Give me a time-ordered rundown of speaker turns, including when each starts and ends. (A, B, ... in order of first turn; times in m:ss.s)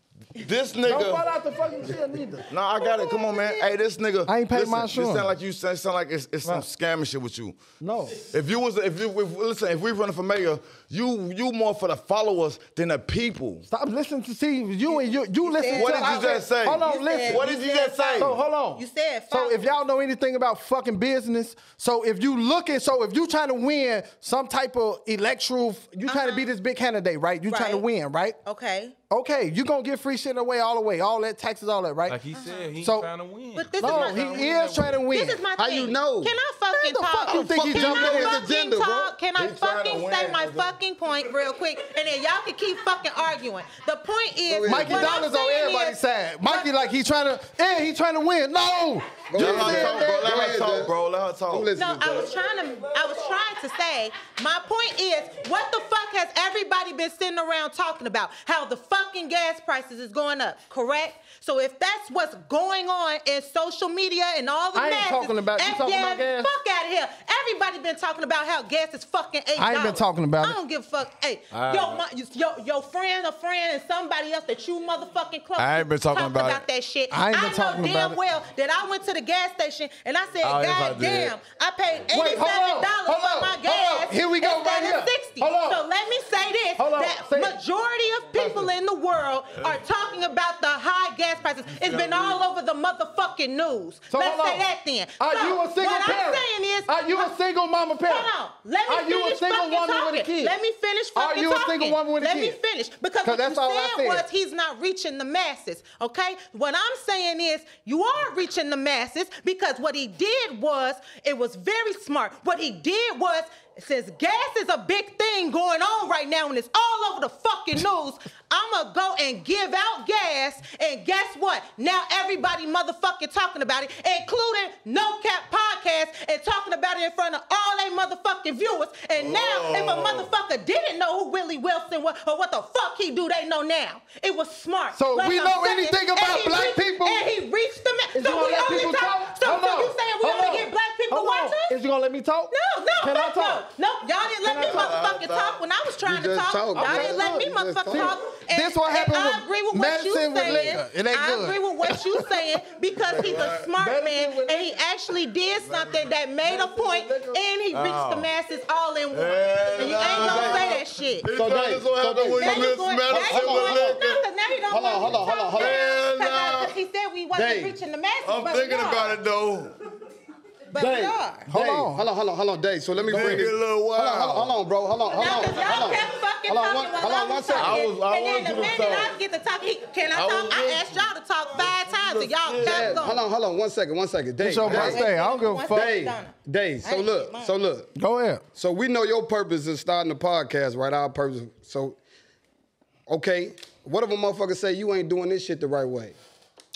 0:00.4-0:01.3 A
0:00.8-0:02.5 B
0:02.5-0:07.6 A
0:02.8-0:03.7 C
0:04.2-0:05.3 B
0:07.8-0:08.3 B
0:08.1-0:13.7 A
0:13.7-0:17.4 B
0:14.9-0:19.7 C
0:15.7-0:18.4 A
0:18.2-0:28.4 B
0:26.1-0:26.5 C
0:27.5-0:27.8 C
0:28.4-0:28.9 C
0:29.1-0:32.2 B
0:32.1-0:35.0 D
0:32.4-0:32.7 C
0:32.8-0:33.1 B
0:33.5-0:46.7 C
0:33.8-0:35.4 B
0:35.6-0:36.3 E
0:36.7-0:38.4 B
0:37.3-0:39.2 E
0:39.4-0:40.7 A
0:44.4-0:45.2 E
0:44.7-0:50.3 B
0:49.3-0:50.9 E
0:49.3-0:51.7 A
0:51.5-0:52.4 E
0:51.8-1:37.3 C
1:04.7-1:06.5 B
1:09.6-1:10.6 B
1:11.5-1:12.0 A
1:15.6-1:16.6 A
1:17.1-1:18.2 B
1:20.4-1:21.4 A
1:22.1-1:25.8 B
1:26.8-1:27.6 B
1:28.3-1:28.7 B
1:29.6-1:29.8 A
1:31.7-1:32.4 A
1:34.1-1:34.7 B
1:35.2-1:38.3 B
1:38.0-2:21.8 C
1:38.9-1:40.5 B
1:41.2-1:42.6 B
1:43.2-1:44.2 B
2:09.1-2:10.3 A
2:14.9-2:17.3 B
2:18.1-2:23.6 B
2:22.5-2:41.3 C
2:24.4-2:25.0 B
2:24.6-2:25.6 A
2:26.0-2:28.1 E
2:26.7-2:32.4 B
2:33.1-2:33.7 A
2:33.4-2:34.8 B
2:36.4-2:37.4 B
2:37.7-2:38.3 A
2:39.1-2:44.2 A
2:39.8-2:40.7 E
2:41.3-2:44.0 E
2:42.4-2:49.2 C
2:44.6-2:45.8 E
2:45.5-2:46.8 A
2:47.3-2:47.8 E
2:48.2-2:49.7 A
2:50.7-2:51.5 C
2:50.7-2:57.8 E
2:51.5-2:52.0 B
2:53.0-2:54.6 A
2:55.1-3:03.2 C
2:57.5-2:59.1 A
3:00.1-3:03.1 A
3:02.6-3:05.0 E
3:04.4-3:05.9 B
3:04.6-3:07.5 C
3:04.7-3:04.9 A
3:05.7-3:07.9 E
3:08.0-3:08.4 B
3:08.5-3:12.0 E
3:13.1-3:16.2 E